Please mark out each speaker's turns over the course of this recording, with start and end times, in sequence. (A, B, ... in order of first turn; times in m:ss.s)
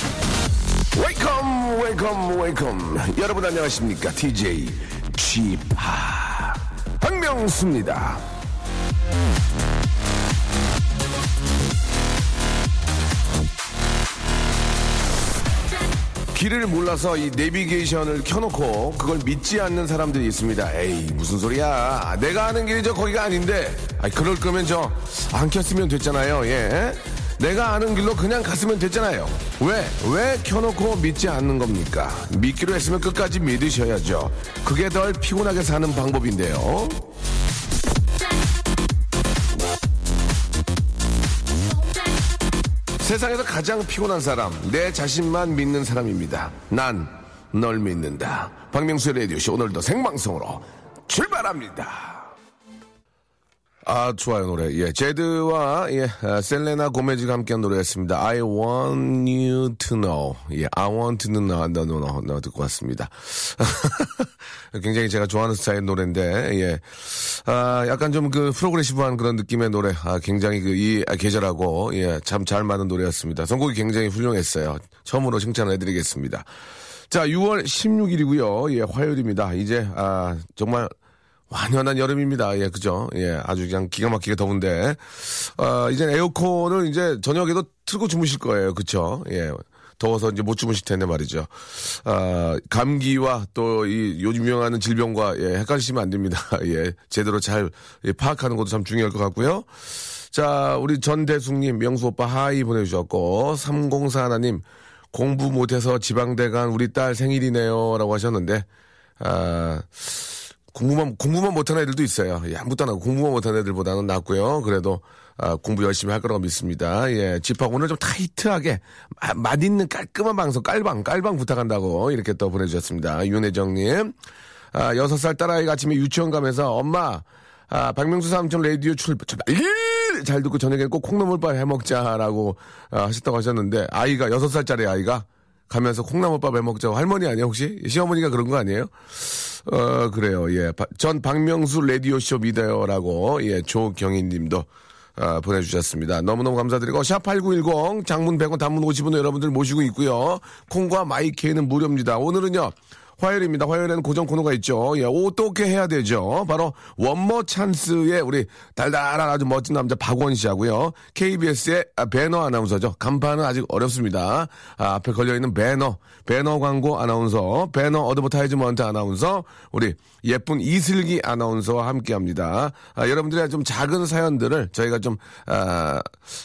0:00.9-0:08.2 A
0:16.3-0:37.0 A
0:43.0-0:52.3 A
0:53.8-1:16.5 A
1:17.1-1:20.9 A
1:21.5-1:39.7 A
1:40.3-1:48.7 A
1:49.2-2:04.1 A
2:04.7-2:56.1 A